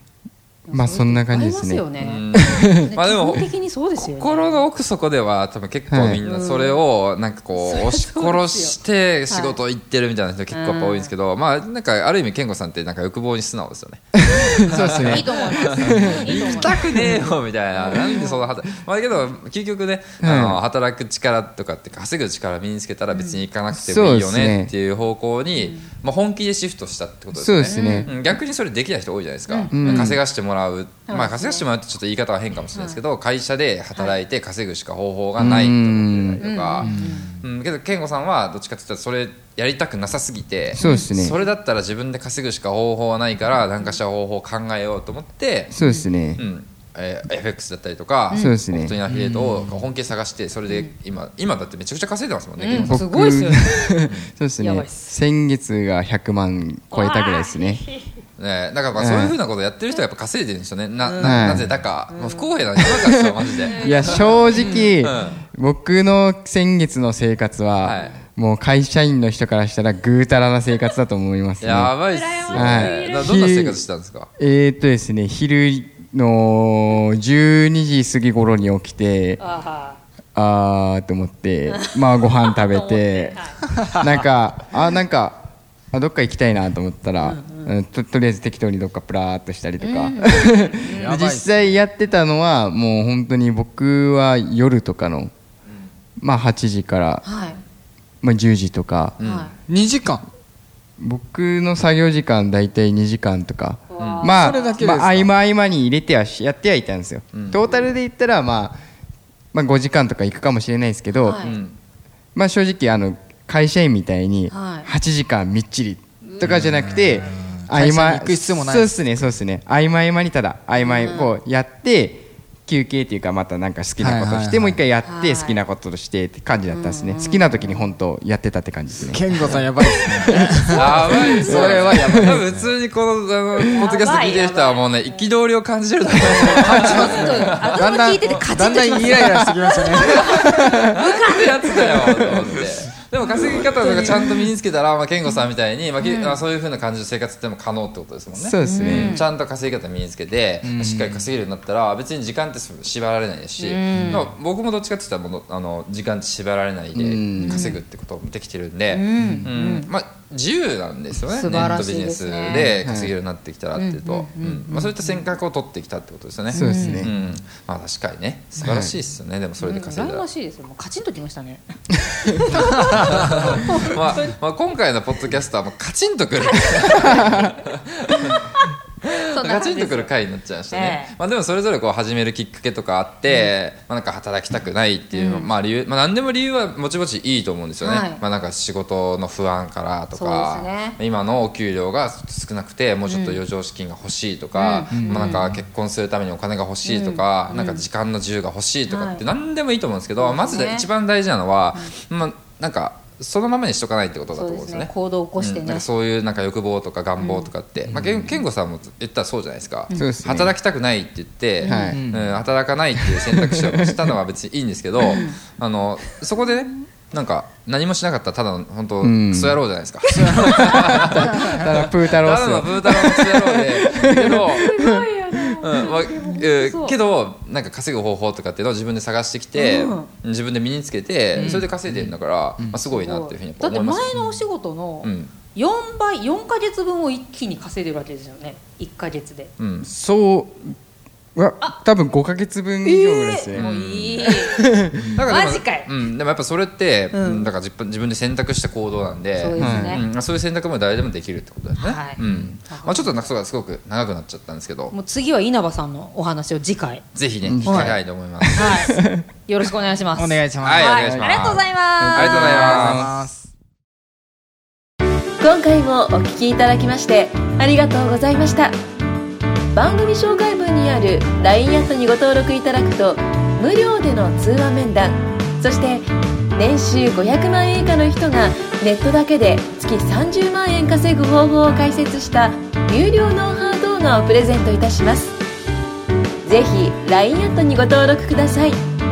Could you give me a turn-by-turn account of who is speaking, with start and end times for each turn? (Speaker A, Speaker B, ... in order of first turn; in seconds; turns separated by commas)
Speaker A: 0.7-4.6, Speaker B: 0.7-2.6, Speaker C: 2.0-45.7, Speaker B: 5.9-6.2, Speaker A: 6.2-6.8, Speaker A: 7.6-8.8, Speaker A: 9.3-9.6, Speaker A: 10.5-11.1, Speaker B: 14.1-17.3, Speaker A: 14.8-17.2, Speaker A: 17.8-18.4, Speaker B: 20.2-20.6, Speaker A: 23.1-23.4, Speaker B: 23.7-24.7, Speaker A: 25.6-25.9, Speaker B: 27.3-28.1, Speaker A: 27.6-28.2, Speaker A: 29.5-30.2, Speaker B: 29.7-30.2, Speaker A: 31.1-31.6, Speaker A: 32.7-33.0, Speaker B: 35.4-36.4, Speaker A: 36.4-37.3, Speaker D: 36.8-37.1, Speaker B: 40.7-41.4, Speaker A: 40.8-41.1, Speaker B: 45.7-46.4, Speaker A: 45.8-46.1, Speaker C: 46.4-53.0, Speaker A: 48.3-48.6, Speaker B: 48.3-49.0, Speaker D: 49.1-49.8, Speaker A: 52.6-54.0, Speaker B: 52.8-57.8, Speaker A: 54.6-55.1, Speaker A: 56.9-58.1, Speaker C: 58.4-65.4, Speaker B: 58.9-59.4, Speaker A: 61.0-61.6, Speaker B: 61.2-61.7, Speaker A: 62.1-62.8, Speaker B: 62.9-71.9, Speaker A: 63.6-64.8, Speaker D: 64.5-64.9, Speaker C: 67.8-68.2, Speaker C: 71.6-74.3, Speaker A: 72.1-73.3, Speaker B: 72.5-73.8, Speaker B: 74.4-79.4, Speaker A: 79.4-80.0, Speaker B: 80.3-83.4, Speaker A: 81.7-83.7, Speaker B: 83.9-95.3, Speaker A: 87.2-87.7, Speaker A: 89.8-91.1, Speaker D: 90.8-91.6, Speaker B: 96.2-97.2, Speaker A: 97.2-97.6, Speaker B: 98.2-99.2, Speaker C: 99.2-99.5, Speaker A: 99.2-99.5, Speaker D: 99.7-100.2, Speaker B: 101.0-108.8, Speaker A: 103.9-104.8, Speaker C: 104.0-104.3, Speaker D: 104.3-105.3, Speaker C: 107.3-107.8, Speaker B: 109.5-111.4, Speaker A: 111.2-111.6, Speaker C: 111.4-111.8, Speaker B: 112.3-131.3, Speaker A: 114.5-114.9, Speaker D: 116.5-118.9, Speaker A: 120.8-121.3, Speaker D: 124.0-124.8, Speaker A: 125.0-125.6, Speaker A: 126.7-128.0, Speaker D: 129.1-130.9, Speaker A: 129.8-131.9, Speaker C: 130.7-138.4, Speaker D: 131.4-132.6, Speaker B: 132.1-132.4, Speaker A: 133.7-135.3, Speaker A: 136.5-142.6, Speaker D: 136.5-140.4, Speaker B: 140.1-140.8, Speaker C: 140.4-170.2, Speaker A: 143.4-144.2, Speaker A: 146.0-146.4, Speaker B: 148.3-149.2, Speaker A: 148.6-149.3, Speaker D: 150.6-151.3, Speaker A: 153.6-154.3, Speaker B: 156.9-157.7, Speaker A: 157.4-157.8, Speaker A: 158.9-159.9, Speaker D: 159.2-159.4, Speaker A: 161.3-162.8, Speaker B: 162.5-163.1, Speaker A: 163.7-165.3, Speaker B: 166.5-167.1, Speaker A: 166.5-167.1, Speaker B: 168.6-168.9, Speaker A: 169.6-171.7, Speaker A: 172.2-174.3, Speaker C: 172.9-178.4, Speaker A: 176.4-177.6, Speaker B: 177.1-177.4, Speaker A: 178.6-180.1, Speaker C: 179.0-224.7, Speaker A: 180.7-181.1, Speaker A: 185.1-185.5, Speaker A: 187.8-188.2, Speaker A: 190.1-191.0, Speaker A: 193.1-193.4, Speaker A: 194.5-195.5, Speaker D: 194.9-195.4, Speaker A: 196.8-197.8, Speaker A: 198.9-199.2, Speaker A: 200.2-200.9, Speaker A: 204.3-205.8, Speaker A: 207.2-207.5, Speaker B: 209.9-210.5, Speaker A: 211.6-212.0, Speaker B: 211.6-212.0, Speaker D: 211.8-212.4, Speaker B: 213.0-214.1, Speaker A: 215.0-215.4, Speaker B: 219.0-219.6, Speaker D: 220.1-221.6, Speaker A: 220.1-220.6, Speaker B: 220.3-225.4, Speaker A: 224.0-227.0, Speaker C: 225.6-234.2, Speaker A: 229.5-230.1, Speaker D: 231.3-232.8, Speaker A: 232.9-239.5, Speaker C: 235.0-235.3, Speaker C: 239.6-239.9, Speaker B: 239.8-240.8, Speaker B: 241.3-243.7, Speaker A: 242.8-244.7, Speaker C: 243.5-244.4, Speaker B: 244.2-245.2, Speaker C: 245.1-254.9, Speaker A: 245.2-245.9, Speaker A: 247.1-247.5, Speaker A: 249.3-250.0, Speaker B: 249.6-250.0, Speaker A: 251.8-253.2, Speaker B: 252.2-252.5, Speaker A: 254.9-257.0, Speaker C: 257.1-258.8, Speaker B: 257.4-259.2, Speaker A: 257.6-258.0, Speaker A: 258.5-263.0, Speaker D: 260.1-261.1, Speaker C: 260.6-263.1, Speaker B: 262.0-263.1, Speaker D: 262.4-263.5, Speaker E: 265.4-268.8, Speaker E: 269.7-285.4, Speaker E: 286.4-288.8